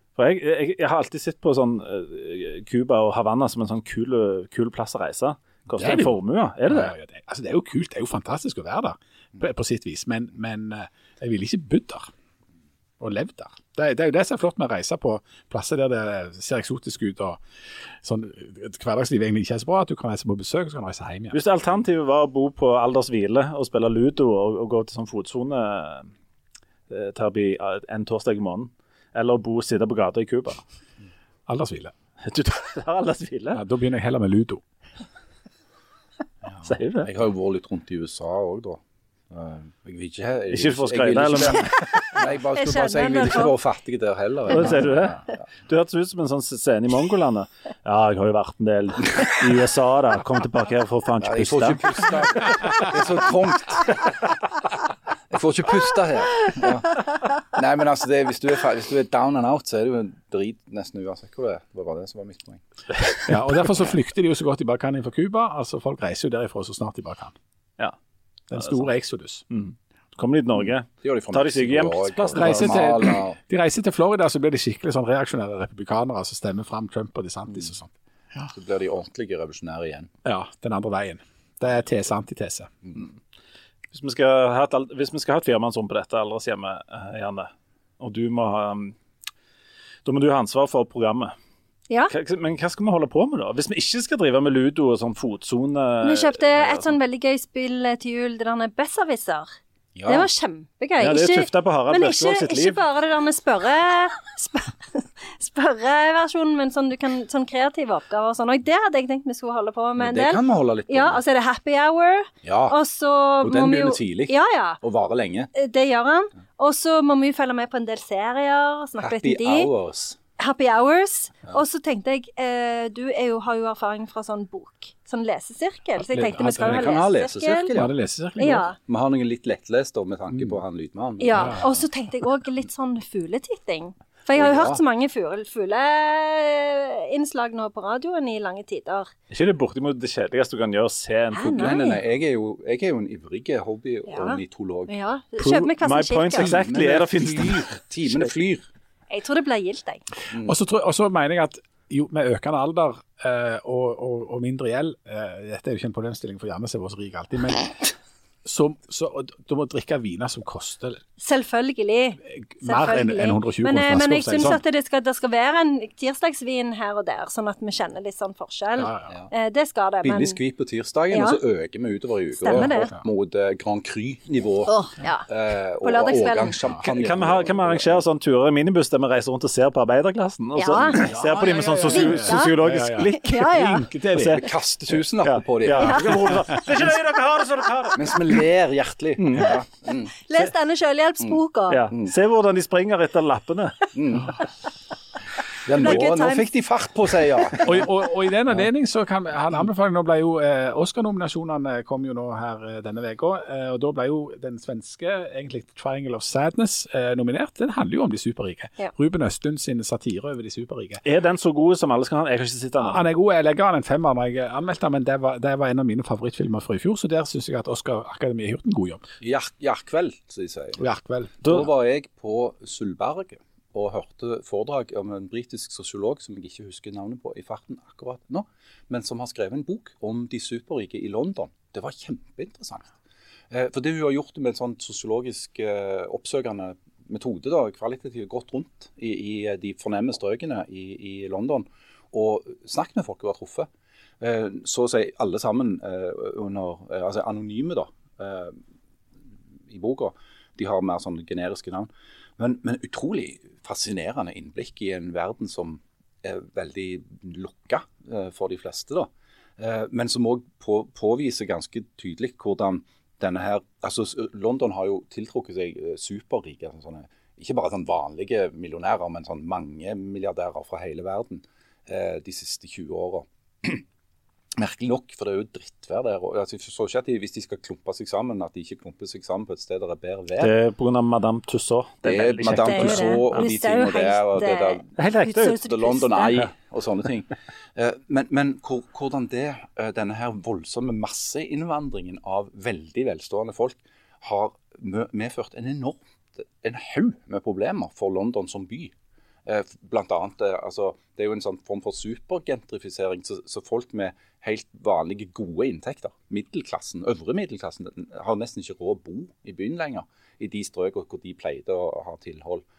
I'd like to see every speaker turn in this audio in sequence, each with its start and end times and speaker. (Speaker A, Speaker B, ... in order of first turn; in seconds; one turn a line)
Speaker A: 0.2-6.9
Speaker B: 5.8-6.1
Speaker B: 6.7-12.1
Speaker B: 13.0-17.4
Speaker B: 18.0-21.4
Speaker A: 21.3-26.1
Speaker A: 26.9-30.6
Speaker B: 31.5-31.9
Speaker A: 32.2-33.6
Speaker B: 33.5-34.6
Speaker C: 36.5-45.4
Speaker A: 36.6-37.1
Speaker A: 40.5-41.7
Speaker D: 42.1-43.6
Speaker A: 44.5-52.0
Speaker C: 51.2-54.1
Speaker C: 55.3-62.6
Speaker B: 63.2-67.3
Speaker B: 68.5-69.4
Speaker A: 68.5-68.9
Speaker A: 69.5-73.1
Speaker C: 71.0-73.4
Speaker B: 72.3-78.5
Speaker C: 78.5-80.1
Speaker B: 80.2-82.7
Speaker A: 83.9-89.0
Speaker A: 90.0-91.3
Speaker A: 92.1-96.9
Speaker D: 96.0-99.5
Speaker C: 100.0-100.3
Speaker D: 100.0-114.8
Speaker A: 101.0-102.8
Speaker C: 110.0-111.2
Speaker C: 112.4-112.8
Speaker C: 113.4-115.5
Speaker D: 115.5-119.7
Speaker C: 119.0-120.2
Speaker D: 120.4-127.8
Speaker B: 126.0-127.0
Speaker C: 126.5-127.9
Speaker B: 127.7-128.7
Speaker D: 128.4-128.8
Speaker C: 128.8-131.7
Speaker D: 131.2-139.1
Speaker B: 131.3-131.6
Speaker C: 134.3-134.8
Speaker A: 139.3-141.8
Speaker D: 141.3-142.0
Speaker C: 141.5-144.9
Speaker D: 144.1-146.6
Speaker A: 145.4-147.7
Speaker C: 146.3-148.7
Speaker D: 149.1-150.0
Speaker C: 150.3-150.6
Speaker B: 150.4-157.8
Speaker B: 158.4-161.0
Speaker D: 161.2-170.4
Speaker B: 162.3-164.6
Speaker B: 168.8-169.1
Speaker C: 170.0-174.7
Speaker D: 171.1-171.4
Speaker D: 172.3-172.9
Speaker D: 174.7-175.3
Speaker C: 175.3-178.0
Speaker D: 175.8-176.6
Speaker A: 176.8-183.5
Speaker D: 180.5-183.9
Speaker B: 181.1-184.4
Speaker A: 184.1-184.4
Speaker C: 184.2-186.3
Speaker A: 185.2-188.3
Speaker D: 185.8-186.3
Speaker C: 187.9-190.1
Speaker A: 189.2-189.6
Speaker D: 190.2-191.9
Speaker A: 191.7-193.8
Speaker C: 193.9-194.4
Speaker C: 195.6-197.9
Speaker D: 195.7-196.5
Speaker D: 197.2-197.7
Speaker B: 197.6-211.0
Speaker A: 211.0-213.0
Speaker B: 212.8-219.0
Speaker C: 219.2-220.8
Speaker B: 220.8-221.7
Speaker C: 221.4-232.9
Speaker C: 233.5-243.7
Speaker C: 244.2-248.6
Speaker C: 249.7-273.8
Speaker C: 274.6-280.5
Speaker A: 280.4-283.3
Speaker C: 282.0-284.9
Speaker D: 282.4-286.5
Speaker A: 285.0-285.6
Speaker C: 285.5-298.9
Speaker C: 299.4-312.6